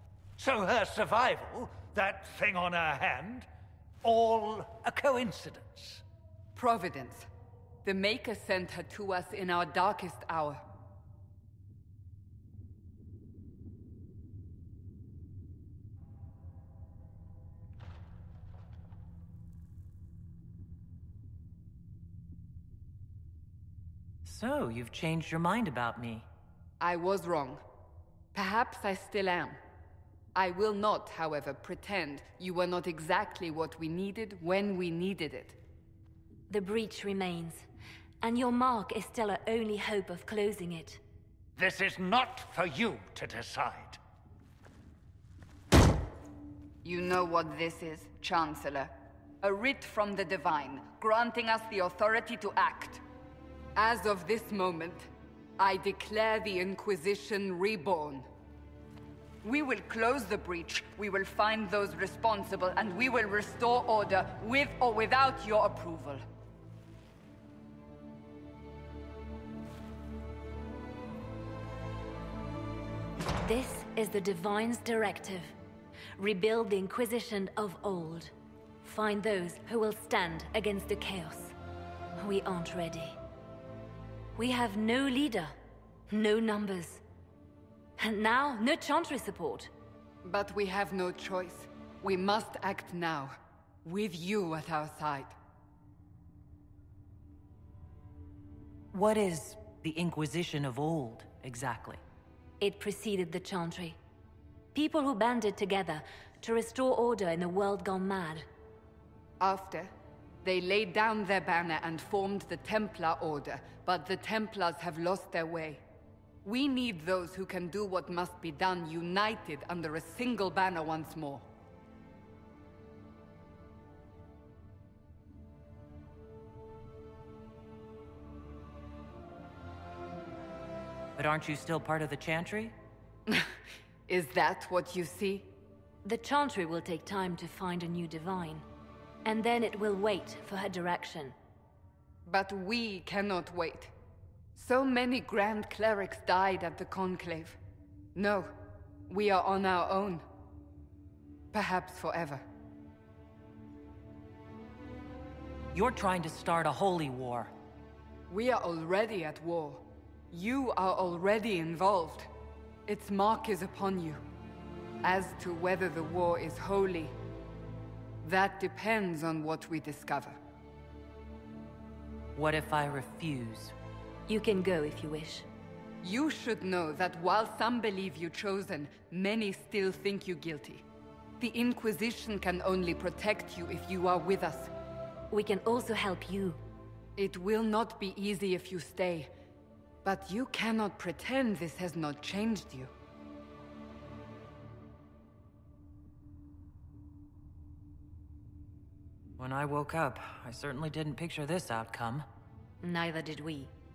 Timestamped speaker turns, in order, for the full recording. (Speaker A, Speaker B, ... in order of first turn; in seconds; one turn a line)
Speaker A: 0.4-3.5
Speaker A: 4.0-6.0
Speaker B: 6.6-7.3
Speaker B: 7.8-10.6
Speaker C: 24.2-26.3
Speaker B: 26.8-27.6
Speaker B: 28.3-29.6
Speaker B: 30.4-35.6
Speaker D: 36.5-37.7
Speaker D: 38.2-41.0
Speaker A: 41.6-44.0
Speaker B: 46.8-53.0
Speaker B: 53.8-58.3
Speaker B: 59.4-66.2
Speaker D: 73.4-75.5
Speaker D: 76.2-81.5
Speaker D: 82.2-83.2
Speaker D: 84.4-85.5
Speaker D: 86.1-87.0
Speaker D: 88.0-89.7
Speaker B: 90.2-95.4
Speaker C: 98.9-102.0
Speaker D: 102.6-104.0
Speaker D: 104.7-108.5
Speaker B: 109.4-109.9
Speaker B: 110.4-115.8
Speaker B: 116.4-121.5
Speaker C: 131.2-132.8
Speaker B: 134.1-135.5
Speaker D: 136.1-138.7
Speaker D: 139.2-141.4
Speaker B: 142.3-143.9
Speaker B: 144.6-147.6
Speaker B: 148.2-148.6
Speaker B: 149.1-150.2
Speaker B: 151.5-152.4
Speaker C: 155.7-157.5
Speaker B: 158.3-162.3
Speaker B: 162.9-164.2
Speaker B: 165.0-167.2
Speaker B: 168.2-170.4
Speaker C: 172.4-173.8
Speaker D: 174.3-175.5
Speaker B: 176.0-180.8
Speaker B: 181.4-184.7
Speaker D: 185.3-186.6
Speaker B: 187.2-189.3
Speaker B: 190.0-192.9
Speaker C: 199.4-202.3
Speaker D: 202.8-203.7